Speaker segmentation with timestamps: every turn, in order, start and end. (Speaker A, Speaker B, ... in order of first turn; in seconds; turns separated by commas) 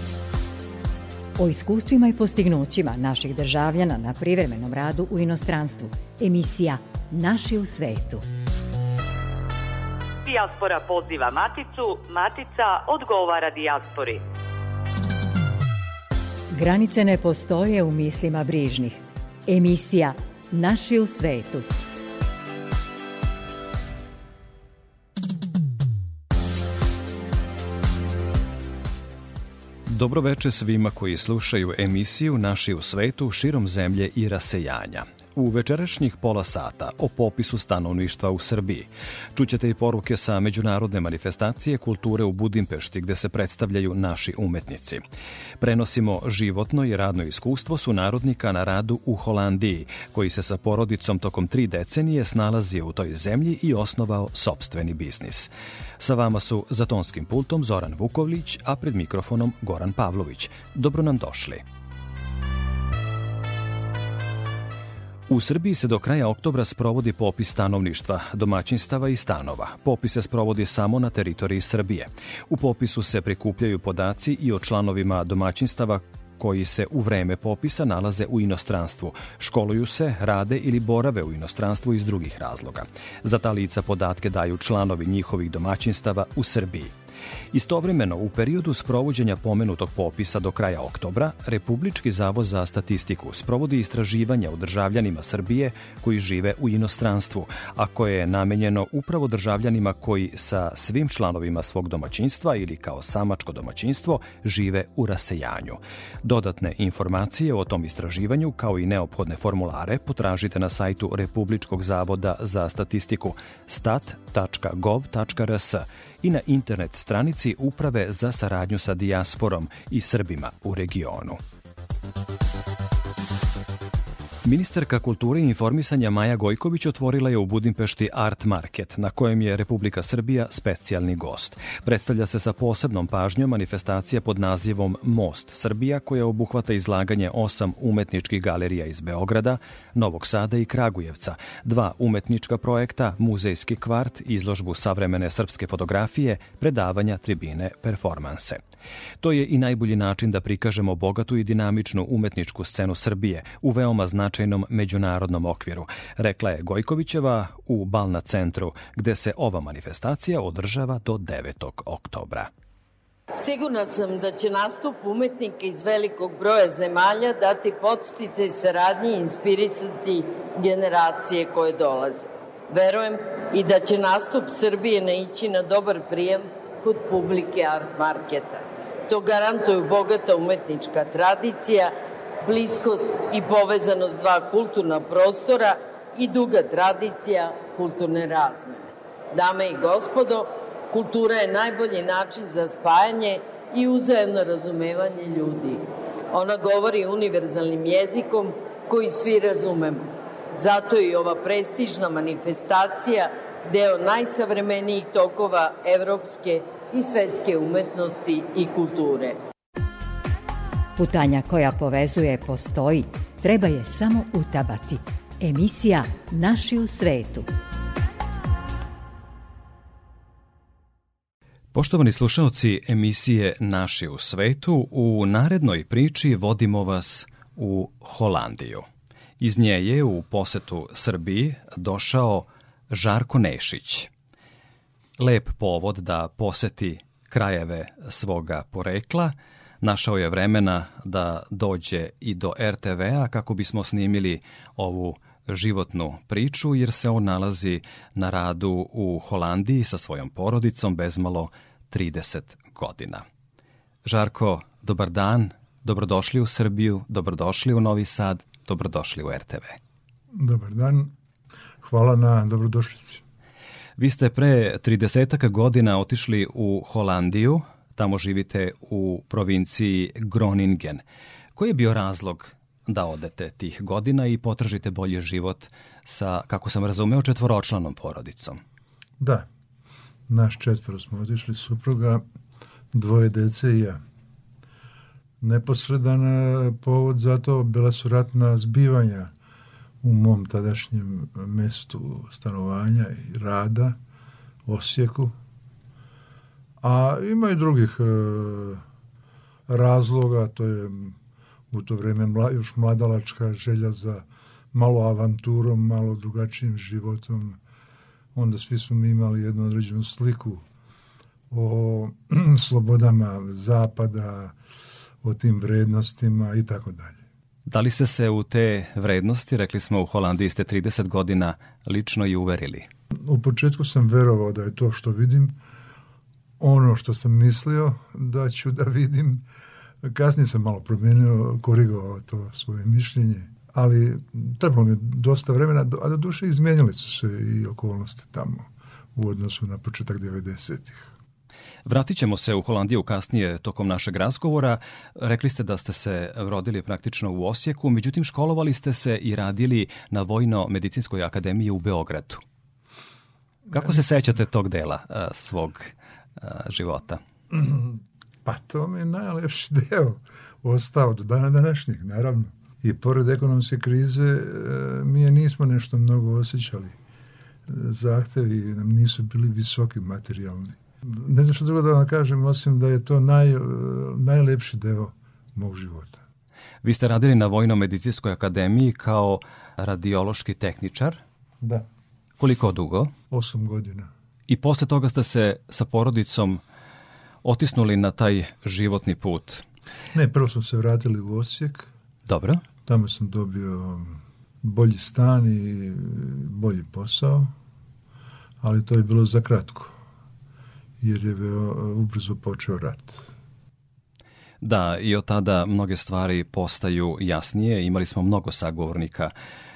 Speaker A: 1.4-8.2, Speaker B: 10.2-14.2, Speaker A: 16.5-21.7, Speaker C: 29.9-45.0, Speaker C: 45.6-61.6, Speaker C: 65.3-86.9, Speaker C: 87.5-121.4, Speaker C: 124.4-148.6, Speaker C: 149.2-162.5, Speaker D: 163.3-181.9, Speaker D: 182.4-200.0, Speaker D: 200.6-209.4, Speaker A: 211.0-217.5, Speaker C: 221.7-228.8, Speaker C: 229.4-234.1, Speaker C: 235.2-253.2, Speaker C: 254.1-259.8, Speaker E: 260.3-261.1, Speaker E: 261.8-263.2, Speaker C: 264.0-271.0, Speaker C: 271.6-278.6, Speaker E: 279.2-279.5, Speaker E: 280.3-282.2, Speaker E: 282.9-284.0, Speaker E: 285.4-289.3, Speaker E: 290.0-294.0, Speaker E: 294.7-295.3, Speaker E: 296.8-298.8, Speaker E: 299.7-301.2, Speaker E: 301.7-307.6, Speaker E: 308.3-310.6, Speaker E: 311.5-314.6, Speaker E: 315.2-317.2, Speaker C: 317.7-322.9, Speaker E: 323.2-325.6, Speaker E: 326.6-329.4, Speaker E: 330.0-341.1, Speaker C: 341.9-352.4, Speaker E: 353.7-354.4, Speaker C: 353.7-357.2, Speaker E: 357.5-367.0, Speaker E: 367.7-376.2, Speaker C: 376.8-381.2, Speaker E: 381.6-381.9, Speaker C: 382.4-383.1, Speaker E: 383.3-384.1, Speaker C: 384.5-386.6, Speaker C: 387.4-389.6, Speaker E: 390.1-391.9, Speaker C: 392.3-392.6, Speaker E: 392.9-397.5, Speaker E: 398.6-399.9, Speaker E: 401.0-403.2, Speaker C: 404.6-409.3